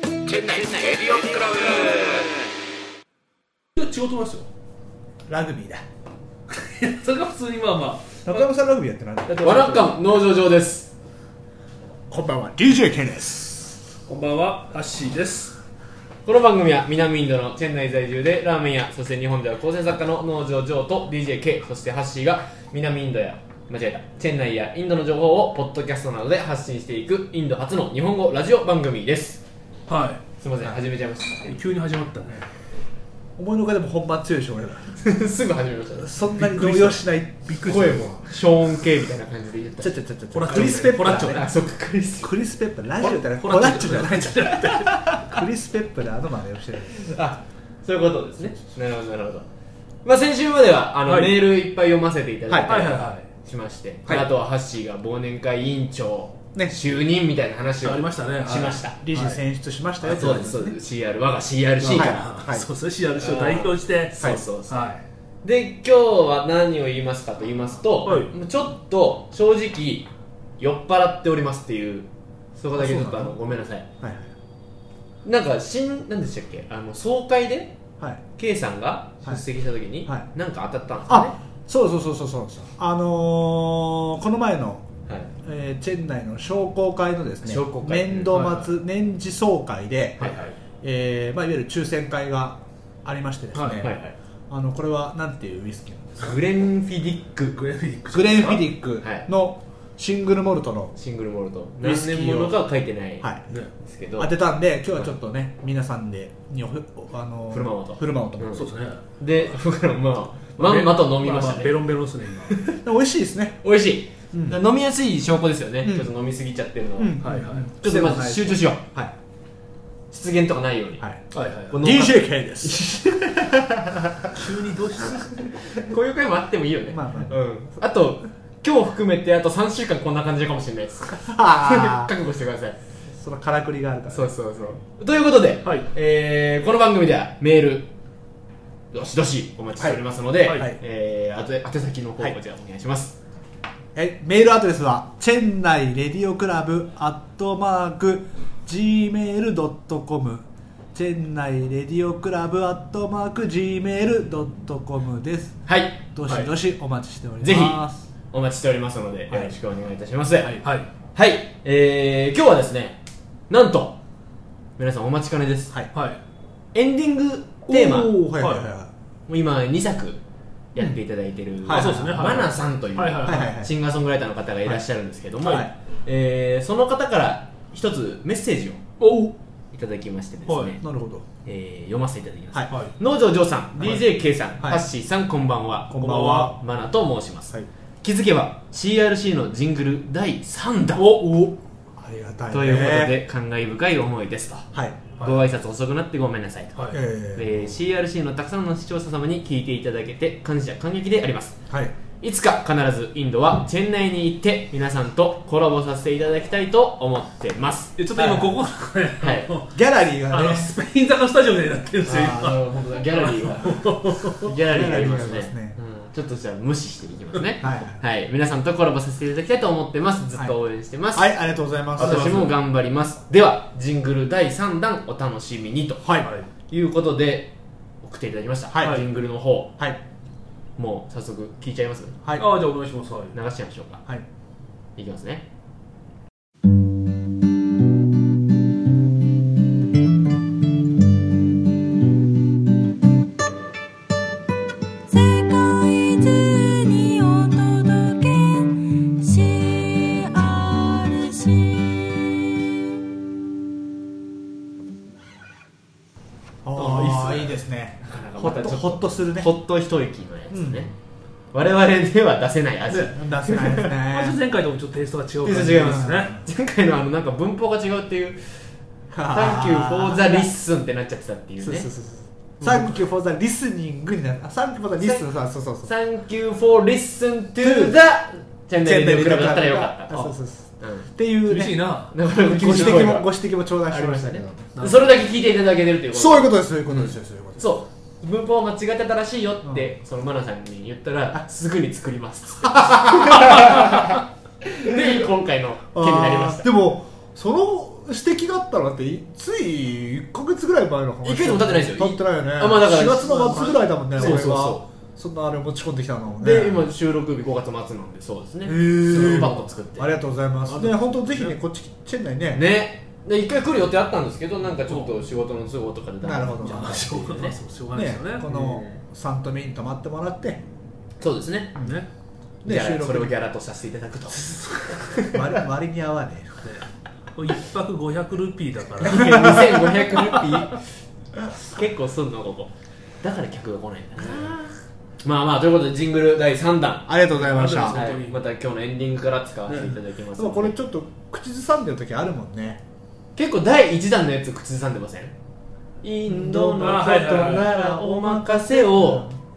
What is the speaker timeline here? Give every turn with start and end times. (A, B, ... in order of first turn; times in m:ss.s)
0:00.3-0:02.2 A
0:03.7-0:04.5 B
0:05.3-0:05.8 C
0:06.5-0:08.5 B
0:08.2-0:09.5 C
0:09.2-0:10.1 B
0:09.4-0:10.9 A
0:12.1-0:13.8 C
0:14.1-0:15.6 B
0:16.2-0:29.4 A
0:29.9-0:30.2 B
0:30.4-0:31.6 A
0:31.5-0:32.5 B
0:33.4-0:34.9 C
0:34.9-0:36.2 A
0:36.0-0:38.2 C
0:36.4-0:38.1 B
0:37.6-0:39.9 A
0:39.8-0:41.5 C
0:40.3-0:41.4 B
0:40.5-0:42.4 A
0:42.2-0:47.1 C
0:43.0-0:45.4 B
0:47.0-0:49.4 A
0:50.0-0:59.0 A
0:51.0-0:51.5 B
0:52.5-0:53.0 C
0:52.6-0:53.3 B
0:56.5-0:56.8 C
0:57.8-0:59.4 B
0:58.5-1:00.8 C
1:00.0-1:02.2 A
1:00.1-1:00.4 B
1:01.8-1:05.0 B
1:01.9-1:02.7 C
1:03.2-1:04.9 A
1:05.4-1:10.1 A
1:08.0-1:08.3 B
1:10.6-1:13.9 A
1:12.7-1:13.4 C
1:14.0-1:14.3 C
1:15.2-1:17.7 A
1:18.4-1:21.4 A
1:21.1-1:24.9 C
1:25.1-1:25.3 A
1:25.4-1:34.0 C
1:27.4-1:28.4 A
1:28.3-1:28.7 B
1:30.2-1:30.5 B
1:33.5-1:33.8 B
1:33.8-1:34.1 A
1:34.5-1:36.3 C
1:36.2-1:37.6 A
1:37.5-1:38.6 B
1:38.1-1:40.9 C
1:39.0-1:39.3 A
1:40.9-1:44.3 A
1:41.8-1:42.6 C
1:44.2-1:48.5 C
1:47.5-1:51.8 A
1:48.5-1:49.0 B
1:50.6-1:52.5 B
1:52.5-1:52.8 A
1:52.8-1:53.6 C
1:53.6-1:57.3 A
1:54.3-1:54.6 C
1:55.8-1:56.1 C
1:57.0-1:59.1 C
1:57.2-1:57.7 B
1:57.8-1:58.8 A
2:00.1-2:03.6 A
2:01.3-2:01.8 B
2:01.7-2:04.3 C
2:04.3-2:05.4 B
2:05.7-2:12.8 A
2:06.9-2:07.4 C
2:11.2-2:12.1 C
2:13.1-2:14.3 C
2:14.1-2:17.9 A
2:18.9-2:23.2 A
2:20.4-2:20.7 B
2:20.5-2:20.8 C
2:23.9-2:38.0 C
2:35.7-2:36.0 A
2:36.2-2:36.5 B
2:37.4-2:40.6 A
2:39.3-2:39.5 C
2:40.4-2:40.9 B
2:41.1-2:43.0 A
2:43.5-2:44.0 A
2:44.8-2:45.8 A
2:45.9-2:46.2 B
2:46.7-2:48.1 A
2:47.7-2:48.9 C
2:48.3-2:48.7 B
2:49.3-2:50.2 A
2:50.7-2:58.8 A
2:51.6-2:52.4 C
2:51.7-2:53.5 B
2:53.2-2:53.7 C
2:55.4-2:55.7 C
2:59.0-2:59.3 B
2:59.7-3:00.8 A
3:00.5-3:00.8 B
3:00.8-3:01.2 C
3:01.4-3:11.0 A
3:03.8-3:04.1 C
3:04.6-3:04.8 C
3:05.9-3:06.6 C
3:06.0-3:06.5 B
3:11.0-3:11.5 B
3:12.0-3:13.2 C
3:12.5-3:21.6 A
3:14.7-3:15.1 C
3:16.9-3:17.7 C
3:21.7-3:21.9 C
3:22.2-3:28.5 A
3:28.0-3:29.8 B
3:29.2-3:29.5 A
3:29.7-3:30.7 C
3:30.3-3:34.4 B
3:32.0-3:41.3 A
3:34.6-3:35.8 C
3:37.6-3:38.0 C
3:41.1-3:42.5 C
3:42.0-3:46.1 A
3:42.0-3:42.5 B
3:46.0-3:46.3 C
3:46.2-3:46.5 B
3:46.7-3:49.8 A
3:48.7-3:49.0 C
3:50.8-3:52.2 A
3:52.4-3:53.4 B
3:53.3-3:54.0 A
3:55.0-3:55.4 A
4:05.1-4:12.4 D
4:16.6-4:19.5 C
4:16.7-4:17.5 B
4:18.1-4:20.9 A
4:20.5-4:20.9 C
4:21.5-4:23.9 A
4:22.9-4:24.4 C
4:24.0-4:26.3 B
4:25.4-4:28.6 A
4:25.5-4:26.4 C
4:29.1-4:30.5 C
4:29.3-4:31.9 A
4:31.6-4:35.9 C
4:32.6-4:32.9 B
4:35.0-4:35.3 A
4:35.8-4:41.1 A
4:37.6-4:38.0 C
4:38.8-4:44.7 C
4:41.4-4:43.0 B
4:42.1-4:43.3 A
4:43.9-4:56.7 A
4:44.8-4:45.2 B
4:46.1-4:47.7 C
4:52.7-4:53.9 C
4:54.8-4:55.3 C
4:55.9-5:06.8 C
5:01.2-5:04.8 A
5:03.4-5:04.5 B
5:06.4-5:10.1 A
5:08.6-5:12.6 C
5:09.1-5:09.6 B
5:10.7-5:11.6 B
5:12.5-5:17.6 A
5:14.9-5:15.1 B
5:16.2-5:20.6 C
5:16.6-5:18.5 B
5:18.4-5:19.0 A
5:21.2-5:21.7 A
5:21.7-5:22.0 C
5:21.8-5:22.1 B
5:22.6-5:23.4 C
5:22.6-5:25.4 A
5:25.3-5:26.7 C
5:26.6-5:30.4 B
5:29.0-5:30.8 A
5:29.1-5:29.9 C
5:31.5-5:37.1 A
5:37.1-5:38.0 C
5:37.3-5:38.4 B
5:37.9-5:40.8 A
5:39.7-5:40.0 B
5:40.3-5:42.8 C
5:43.4-5:45.3 A
5:46.0-5:49.3 A
5:46.2-5:49.4 C
5:46.8-5:47.7 B